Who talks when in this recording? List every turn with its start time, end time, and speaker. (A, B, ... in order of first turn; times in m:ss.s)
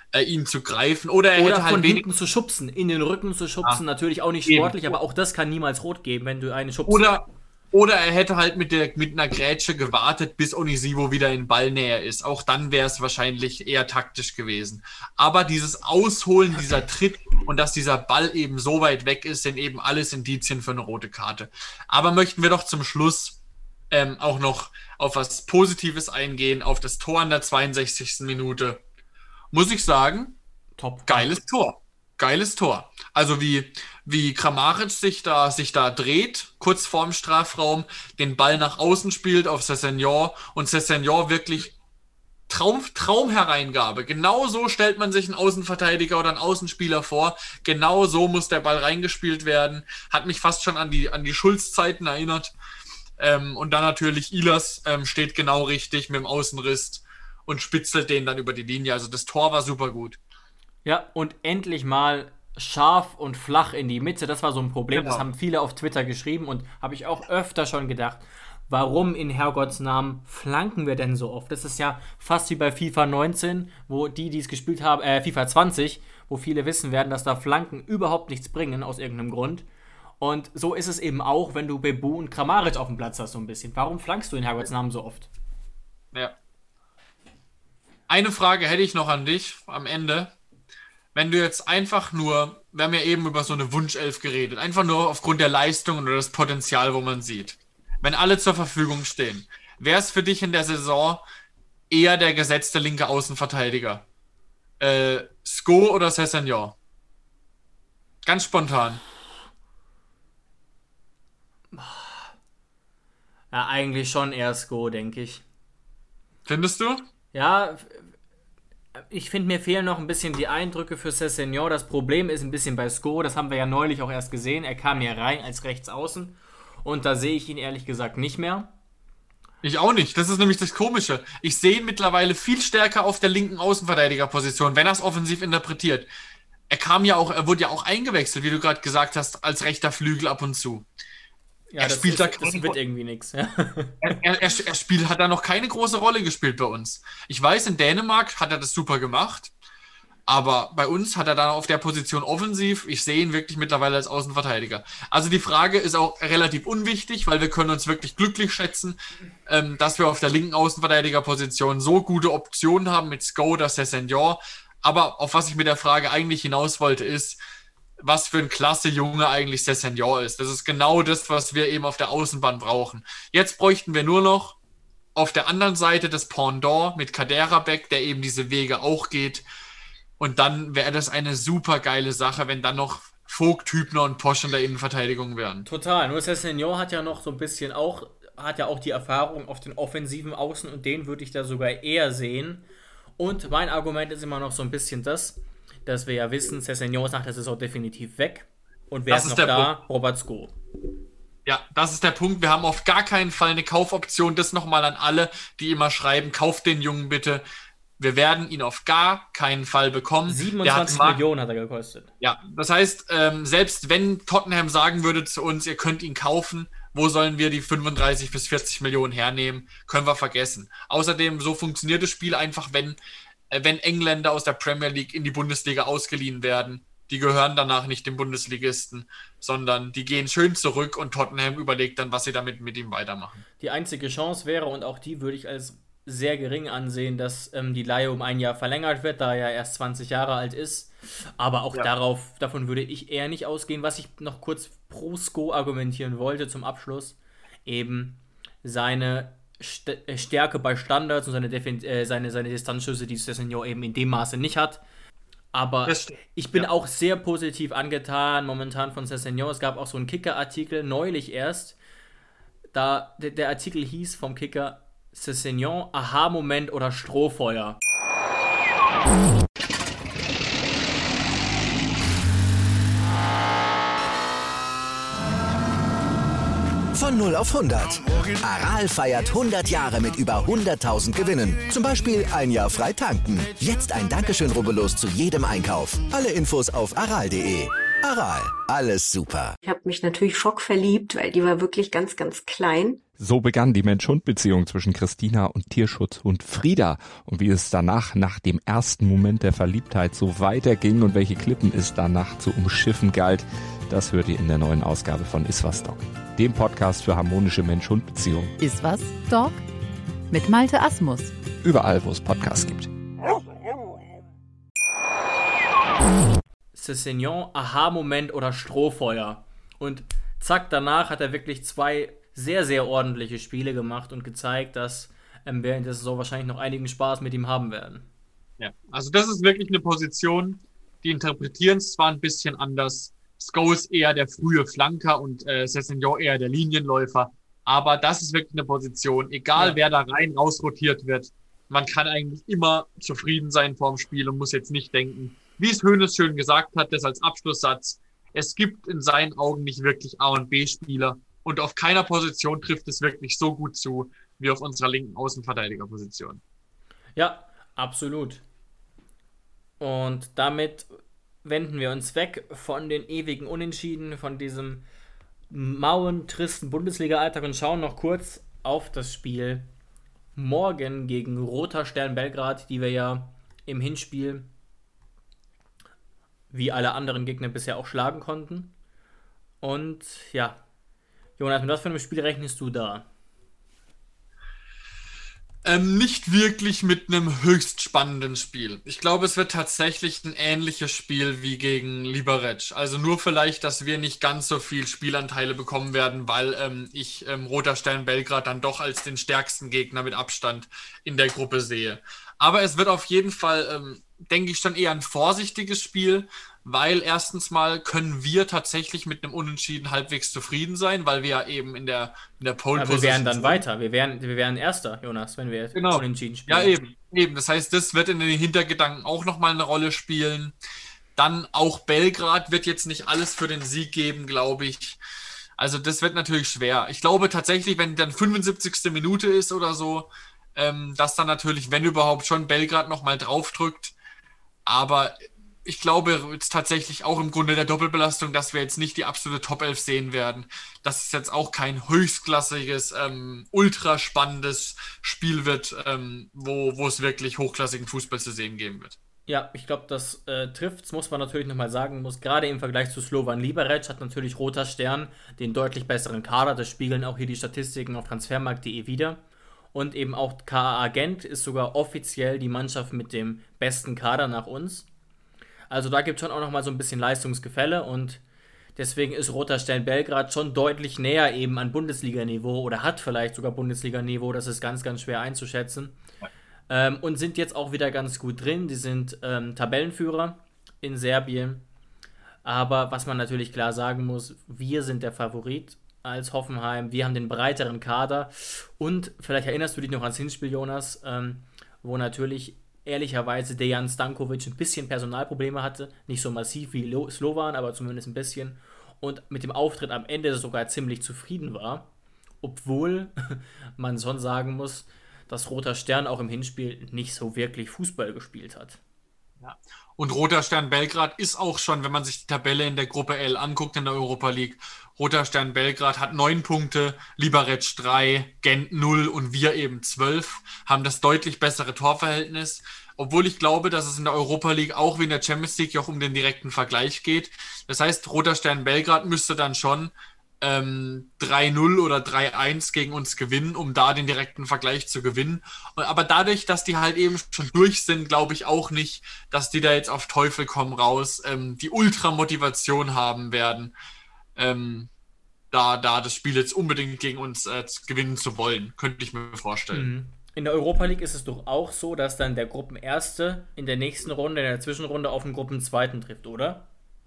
0:00.1-0:02.0 A
0:01.4-0:07.1 B
0:04.5-0:05.0 A
0:06.9-0:23.4 A
0:23.9-0:28.8 A
0:29.5-0:30.4 A
0:30.8-0:31.4 B
0:31.1-0:41.7 A
0:42.5-0:52.5 A
0:53.2-1:00.2 A
1:00.8-1:19.7 B
1:04.9-1:05.2 A
1:20.2-1:25.3 B
1:28.1-1:30.3 A
1:31.1-1:41.2 A
1:41.9-1:44.0 A
1:44.8-1:46.8 A
1:48.2-1:49.0 A
1:51.7-1:52.3 B
1:53.5-1:55.4 B
1:56.5-1:57.1 A
1:57.3-1:58.1 B
1:59.0-2:08.7 B
2:09.6-2:16.1 A
2:16.7-2:20.8 A
2:21.7-2:24.2 B
2:21.8-2:22.8 A
2:24.0-2:29.5 A
2:30.3-2:39.0 A
2:39.5-2:47.4 A
2:48.0-2:54.6 A
2:55.2-2:59.4 A
3:00.2-3:05.7 A
3:05.7-3:12.6 B
3:13.2-3:20.5 B
3:19.1-3:19.7 A
3:21.5-3:27.4 A
3:28.0-3:31.2 A
3:30.3-3:32.1 B
3:32.2-3:43.0 A
3:43.5-3:53.4 A
3:53.6-4:14.8 B
4:15.5-4:21.8 B
4:15.9-4:16.7 A
4:22.7-4:27.8 B
4:36.9-4:49.6 C
4:49.6-4:53.0 D
4:53.2-5:08.5 E
5:08.6-5:09.6 F
5:10.3-5:11.3 F
5:11.6-5:12.9 E
5:16.8-5:28.1 B
5:28.6-5:56.4 A
5:57.2-5:58.4 B
5:59.8-6:00.9 B
6:01.4-6:04.8 B
6:05.5-6:09.7 B
6:10.4-6:14.5 B
6:16.5-6:18.7 B
6:19.6-6:20.6 B
6:21.4-6:23.1 B
6:25.6-6:53.6 A
6:52.8-6:56.8 B
6:55.8-7:00.6 A
7:01.2-7:05.0 A
7:05.6-7:14.0 A
7:14.7-7:29.0 A
7:29.3-7:39.2 B
7:39.7-7:44.9 B
7:45.7-7:48.2 B
7:48.8-7:56.0 B
7:56.7-8:01.6 B
8:02.4-8:21.9 B
8:22.4-8:28.8 B
8:29.4-9:03.7 A
9:04.4-9:04.9 A
9:05.5-9:09.9 A
9:09.7-9:16.7 B